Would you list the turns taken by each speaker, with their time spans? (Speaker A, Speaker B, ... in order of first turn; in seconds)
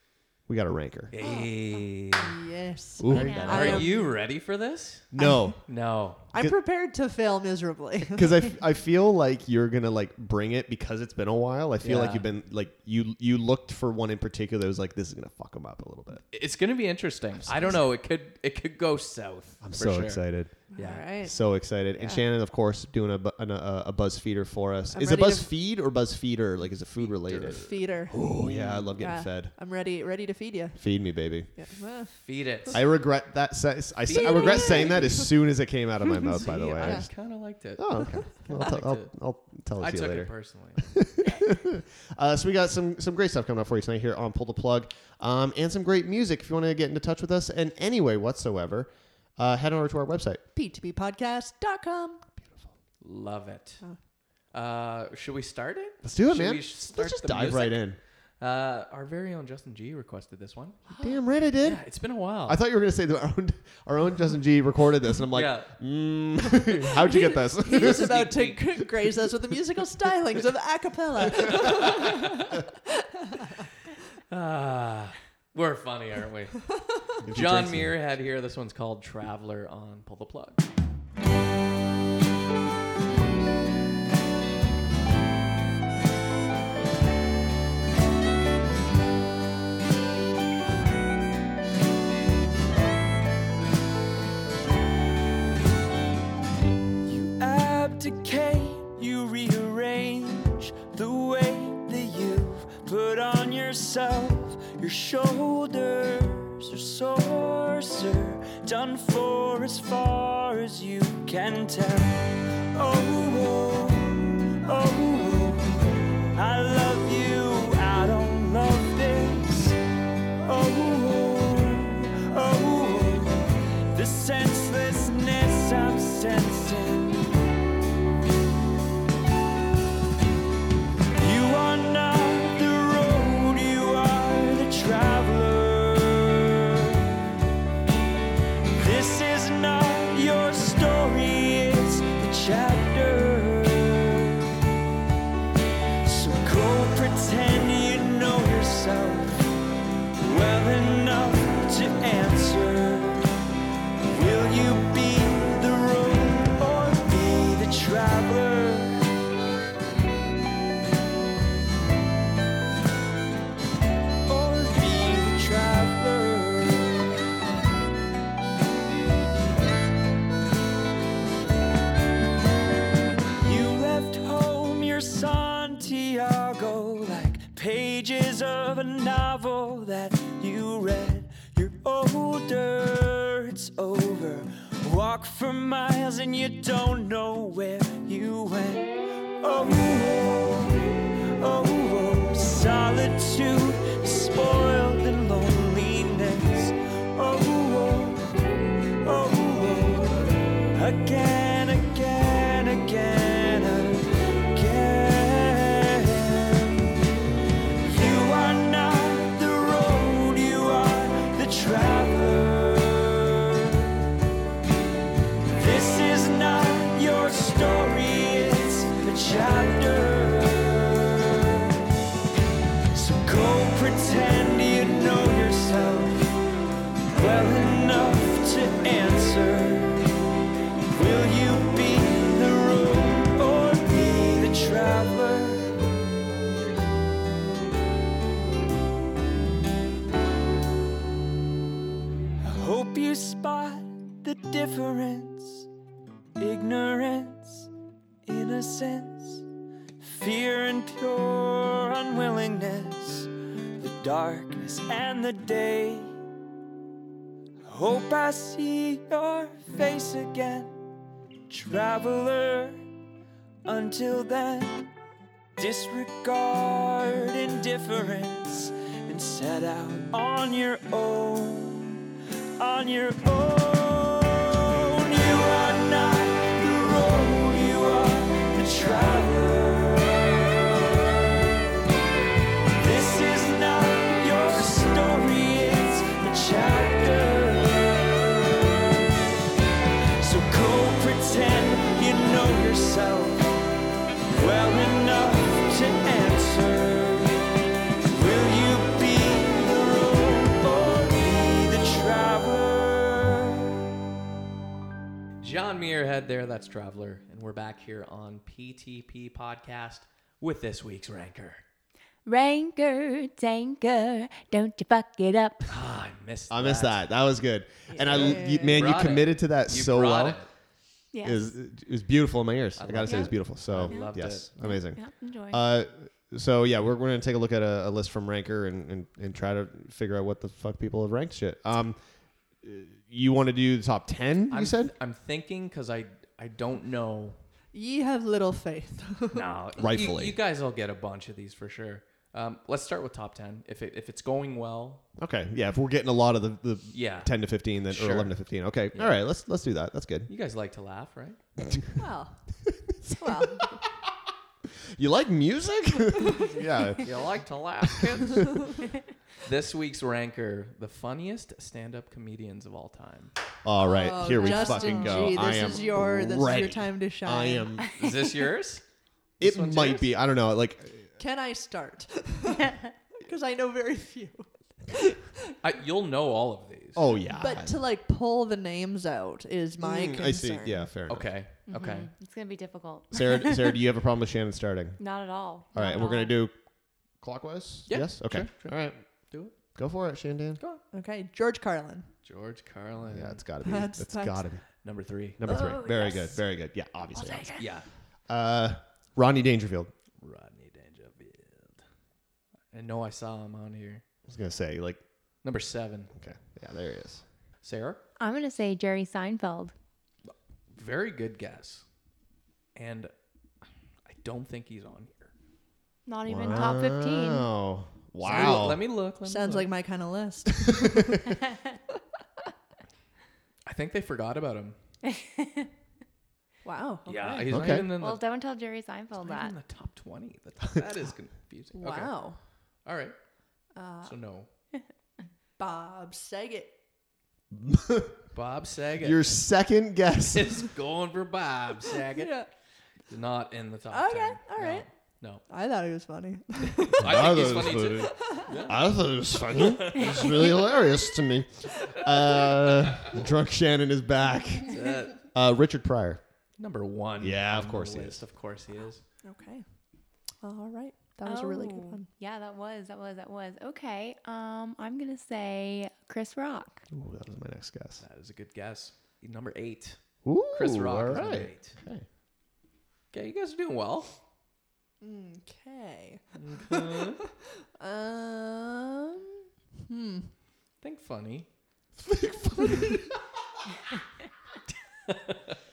Speaker A: 0.5-1.1, 3.0-3.9, 5.1-5.6, 8.1-16.2, 17.4-17.8, 19.6-20.6, 21.2-29.5, 30.8-31.5, 32.7-37.1, 37.8-50.4, 56.0-58.0, 61.0-61.9, 62.4-68.2, 77.2-78.0, 316.5-320.4, 321.2-332.0, 332.6-334.9, 339.8-340.4, 345.2-350.3, 351.6-351.9, 352.7-353.8, 354.9-357.2, 357.9-358.4, 363.6-367.9, 369.4-371.1, 376.9-377.8, 379.8-381.3, 383.1-385.0, 385.7-386.6, 387.2-389.0, 389.7-390.6, 393.1-394.6, 395.4-397.6, 398.3-399.9, 404.3-405.0, 406.1-407.2, 416.2-418.8, 420.5-421.4, 427.5-427.9, 437.5-438.2, 439.0-440.6, 447.0-454.8, 455.3-456.2, 457.2-458.2, 466.9-468.0, 470.2-472.0, 482.1-482.9
Speaker B: 1.1-2.4, 3.2-5.1, 5.7-6.2, 11.8-12.3, 16.3-21.1, 26.9-28.9, 32.2-32.9, 34.1-35.3, 36.2-39.1, 39.8-40.9, 53.0-53.8, 54.5-57.9, 58.4-61.1, 61.6-62.6, 65.3-65.7, 67.7-68.8, 71.5-72.4, 74.3-76.6, 77.3-80.6, 305.4-311.6, 315.7-317.0, 318.1-320.5, 322.8-324.5, 334.5-337.4, 339.3-345.0, 346.9-347.3, 347.9-348.4, 348.9-349.2, 350.3-351.4, 357.0-358.6, 359.4-363.3, 368.0-368.8, 369.4-370.1, 375.6-377.1, 381.1-382.1, 387.9-389.5, 392.2-393.4, 394.8-395.4, 397.5-397.9, 400.2-401.8, 402.7-404.0, 405.4-406.1, 407.6-408.0, 410.3-411.8, 412.7-413.1, 414.1-415.3, 418.2-419.7, 423.6-424.8, 427.1-428.2, 429.2-432.1, 432.8-433.1, 434.0-434.5, 438.3-439.3, 440.3-442.4, 443.1-445.4, 446.8-448.9, 449.5-450.6, 454.7-455.2, 456.6-459.0, 468.0-470.0, 470.5-471.8, 473.1-474.2, 476.3-477.2, 480.8-481.5, 482.6-483.0, 485.1-485.6
Speaker C: 1.2-1.5, 2.1-4.2, 5.2-5.6, 6.3-8.5, 20.7-21.3, 22.0-22.2, 24.9-25.5, 27.5-28.3, 28.9-30.8, 31.5-32.1, 34.1-35.2, 36.8-37.1, 50.5-52.2, 66.9-73.6, 317.9-318.9, 337.7-339.5, 352.0-352.4, 353.1-353.7, 363.8-367.7, 371.2-375.5, 377.4-380.9, 390.9-392.1, 393.6-394.4, 419.2-421.2, 426.6-427.5, 431.8-432.4, 433.7-434.1, 435.6-436.8, 442.1-442.5, 443.9-444.9, 445.5-447.2, 448.1-448.7, 459.2-459.6, 460.4-462.1, 475.0-480.3
Speaker D: 3.1-3.8, 312.2-315.7, 321.1-321.5, 323.1-323.3, 323.9-325.6, 364.4-365.5, 381.7-383.8, 385.0-386.3, 395.4-396.4, 397.2-397.6, 408.2-409.7, 416.1-417.5, 425.0-425.7, 427.8-429.6, 461.2-466.8
Speaker E: 97.0-119.8, 120.4-127.2, 131.2-137.3, 138.7-144.6, 146.0-149.4, 150.2-153.3, 154.1-159.1, 164.2-167.2, 173.4-198.2, 199.0-207.1, 207.8-214.1, 215.5-221.9, 222.9-226.3, 227.1-230.1, 230.9-235.7, 242.4-245.7, 246.4-247.7, 248.2-249.5, 250.0-256.1, 257.6-260.7, 261.5-262.8, 263.6-264.9, 265.6-281.6, 282.8-289.4, 290.2-293.5, 294.3-297.4, 298.0-303.6